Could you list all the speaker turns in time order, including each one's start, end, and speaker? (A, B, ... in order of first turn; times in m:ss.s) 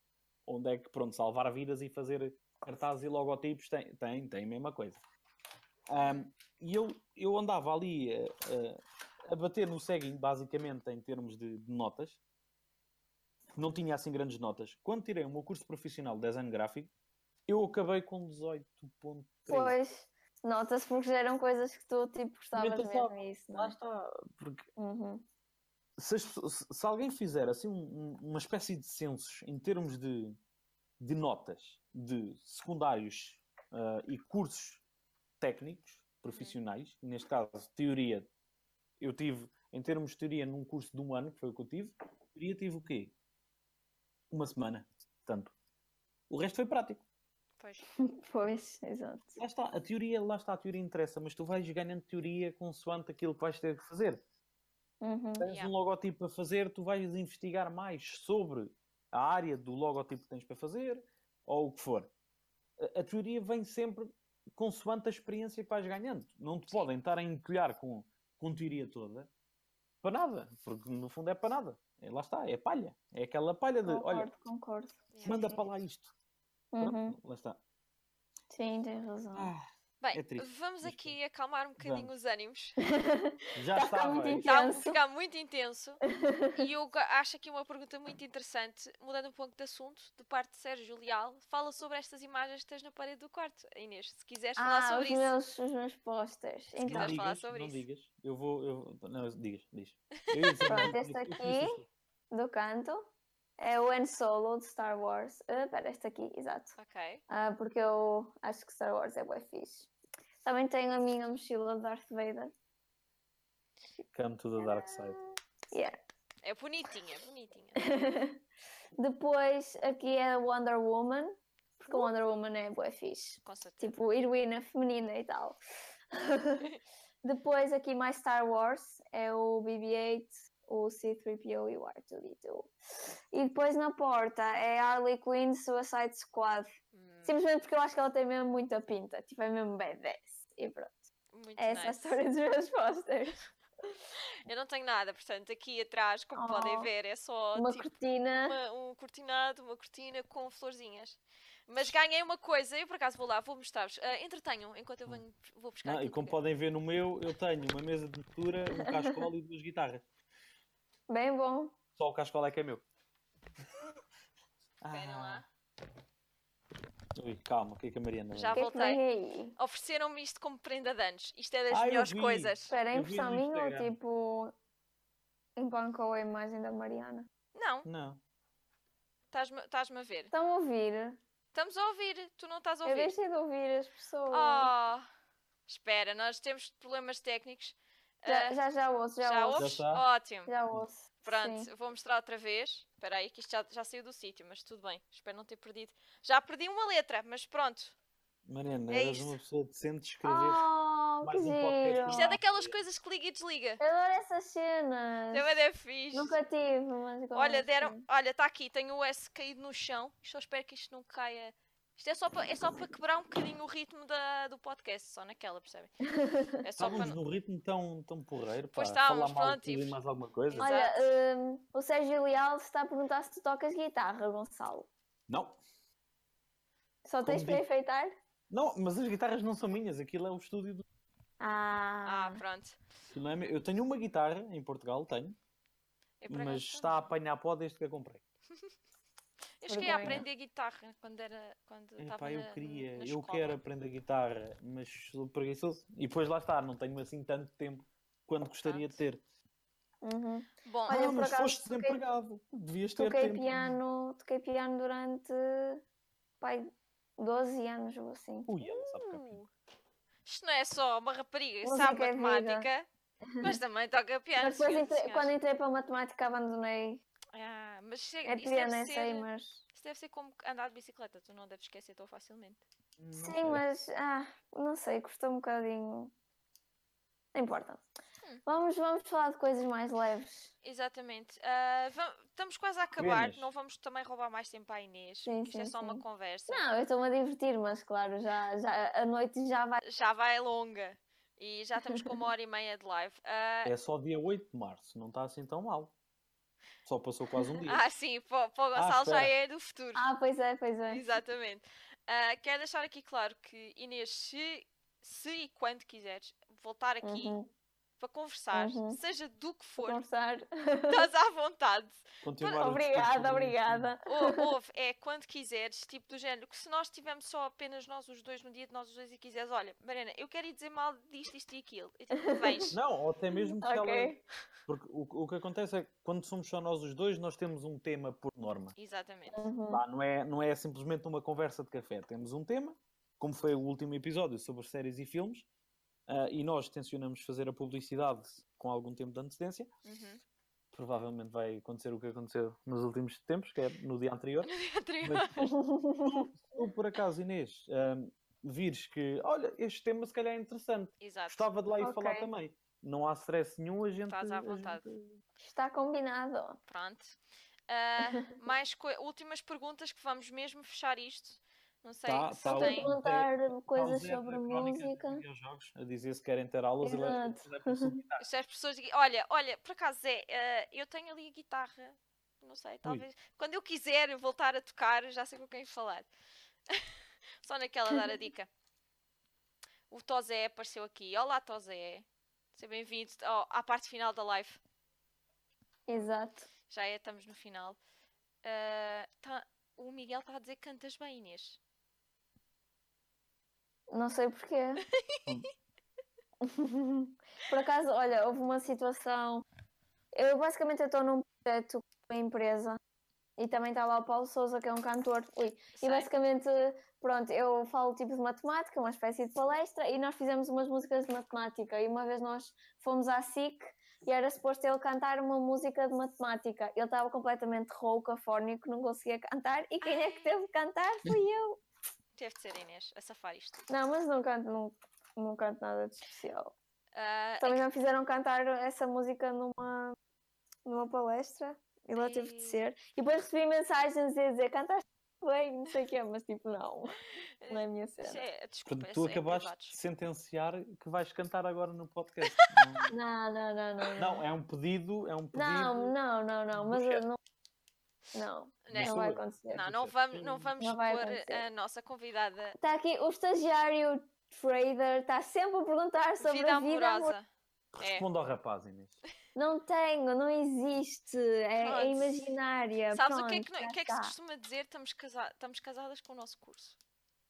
0:00.4-0:05.0 A
0:05.9-0:12.2 A
0:06.0-0:06.3 B
0:13.6-0:16.9 A
0:17.5-0:19.8 A
0:19.5-0:23.8 C
0:22.5-0:24.6 A
0:24.8-0:25.2 C
0:26.0-0:30.4 A
0:31.0-0:34.8 A
0:35.4-0:38.3 A
0:39.0-0:43.1 A
0:44.3-0:45.5 A
0:46.3-0:47.0 A
0:47.6-0:47.8 B
0:48.0-0:49.4 C
0:49.4-0:54.2 A
0:55.0-0:55.5 C
0:55.4-1:02.1 A
0:55.4-0:55.7 B
1:02.8-1:09.3 A
1:10.0-1:14.3 A
1:13.8-1:15.6 C
1:15.1-1:15.4 B
1:15.2-1:16.1 A
1:16.7-1:17.2 C
1:16.8-1:17.6 A
1:18.5-1:19.5 C
1:19.3-1:21.2 A
1:20.0-1:22.8 B
1:21.8-1:22.1 A
1:22.8-1:25.0 C
1:23.6-1:24.5 A
1:24.4-1:26.0 B
1:26.1-1:26.7 C
1:26.6-1:35.3 B
1:34.6-1:37.2 C
1:36.8-1:37.8 B
1:36.9-1:41.9 A
1:40.7-1:41.8 C
1:42.3-1:43.1 C
1:43.6-1:46.8 C
1:46.8-1:47.2 B
1:47.3-1:49.9 C
1:50.4-1:52.5 C
1:54.1-1:55.2 A
1:54.6-1:55.9 C
1:56.4-1:57.9 B
1:57.8-1:58.4 C
1:59.0-2:05.6 C
2:03.4-2:03.9 B
2:06.1-2:06.7 C
2:07.2-2:12.7 C
2:13.3-2:16.7 C
2:16.9-2:17.4 B
2:17.2-2:23.4 C
2:21.3-2:22.2 B
2:24.5-2:27.8 B
2:26.3-2:26.9 C
2:27.5-2:28.5 C
2:28.4-2:36.4 B
2:35.8-2:40.0 A
2:38.8-2:39.2 C
2:41.1-2:41.8 C
2:42.0-2:42.8 A
2:44.8-2:45.4 A
2:44.9-2:45.4 B
2:47.2-2:48.6 A
2:48.3-2:49.0 B
2:48.5-2:49.6 C
2:49.6-2:52.7 B
2:51.7-2:54.0 A
2:52.7-2:54.5 C
2:55.6-2:57.3 C
2:57.5-2:57.9 B
2:57.8-2:58.2 A
2:59.3-3:00.3 B
3:00.3-3:01.2 C
3:01.5-3:03.1 B
3:02.8-3:04.7 C
3:04.3-3:05.1 B
3:05.7-3:08.6 B
3:08.2-3:09.7 C
3:09.2-3:10.5 B
3:09.6-3:10.0 A
3:10.5-3:11.7 C
3:11.2-3:17.9 B
3:18.4-3:20.6 A
3:18.9-3:19.4 B
3:20.2-3:22.2 C
3:21.2-3:22.8 A
3:22.1-3:23.8 B
3:23.8-3:25.6 C
3:25.3-3:26.4 B
3:26.1-3:28.0 C
3:27.3-3:35.9 B
3:36.0-3:36.6 C
3:36.6-3:37.2 B
3:36.8-3:40.7 A
3:38.7-3:40.0 B
3:40.5-3:41.0 B
3:40.6-3:44.9 C
3:45.3-3:45.6 A
3:47.0-3:48.1 C
3:47.2-3:47.6 A
3:48.5-3:50.8 A
3:51.4-3:52.4 C
3:52.0-3:52.8 B
3:53.1-3:55.4 A
3:56.2-3:57.1 B
3:56.3-3:58.2 A
3:59.6-4:03.6 B
3:59.7-4:00.2 C
4:02.0-4:09.2 A
4:08.6-4:09.0 B
4:10.0-4:12.0 C
4:10.6-4:11.1 B
4:10.9-4:13.8 A
4:13.0-4:15.8 C
4:16.4-4:18.5 C
4:18.5-4:19.4 A
4:18.6-4:19.5 B
4:20.2-4:22.8 B
4:21.6-4:22.7 C
4:23.3-4:23.6 C
4:23.4-4:25.3 B
4:24.4-4:27.0 C
4:27.3-4:32.6 B
4:28.2-4:29.6 C
4:33.0-4:33.6 A
4:33.2-4:36.1 C
4:37.3-4:37.8 C
4:38.4-4:40.5 C
4:40.6-4:46.6 B
4:43.0-4:43.5 A
4:45.2-4:49.8 C
4:49.8-4:53.7 B
4:53.6-4:55.9 A
4:56.8-4:57.8 A
4:57.6-5:00.1 B
4:58.7-4:59.3 A
4:59.9-5:01.0 C
5:00.9-5:07.4 B
5:07.0-5:07.5 C
5:08.0-5:10.0 B
5:08.5-5:09.0 C
5:09.8-5:11.1 C
5:10.9-5:12.6 B
5:12.2-5:13.9 A
5:12.6-5:14.5 C
5:14.0-5:22.8 B
5:22.2-5:22.6 C
5:22.7-5:28.7 A
5:23.3-5:24.2 C
5:28.8-5:29.5 B
5:29.3-5:29.8 C
5:29.7-5:35.5 A
5:36.1-5:39.7 A
5:39.8-5:40.2 B
5:40.7-5:44.5 A
5:44.4-5:45.5 B
5:45.0-5:45.3 A
5:45.4-5:46.3 C
5:46.0-5:55.2 A
5:51.0-5:51.5 B
5:51.8-5:52.3 C
5:54.1-5:54.8 B
5:55.4-5:56.6 C
5:56.7-5:57.2 B
5:57.7-6:02.9 B
6:02.0-6:08.2 A
6:02.5-6:05.2 C
6:06.8-6:07.9 C
6:08.2-6:16.1 B
6:16.7-6:18.5 B
6:19.9-6:24.6 B
6:25.9-6:26.5 C
6:26.7-6:27.8 B
6:28.4-6:31.6 B
6:33.9-6:34.8 C
6:36.4-6:39.4 C
6:40.1-6:42.8 C
6:43.4-7:01.6 C
6:45.8-6:46.1 B
6:59.8-7:00.3 B
7:02.2-7:03.6 B
7:03.7-7:06.5 C
7:06.9-7:07.6 B
7:07.4-7:10.0 C
7:10.6-7:17.0 C
7:11.9-7:12.6 B
7:17.4-7:19.8 B
7:17.5-7:18.2 C
7:18.6-7:22.9 A
7:22.3-7:22.9 B
7:22.9-7:24.2 C
7:23.9-7:26.0 A
7:25.3-7:27.2 C
7:26.5-7:27.0 A
7:28.1-7:29.6 C
7:28.6-7:32.6 B
7:28.7-7:30.5 A
7:30.6-7:31.4 C
7:32.6-7:37.1 C
7:36.2-7:37.3 B
7:37.8-7:38.1 B
7:37.8-7:39.0 A
7:39.3-7:44.1 C
7:41.6-7:42.4 B
7:42.9-7:46.8 B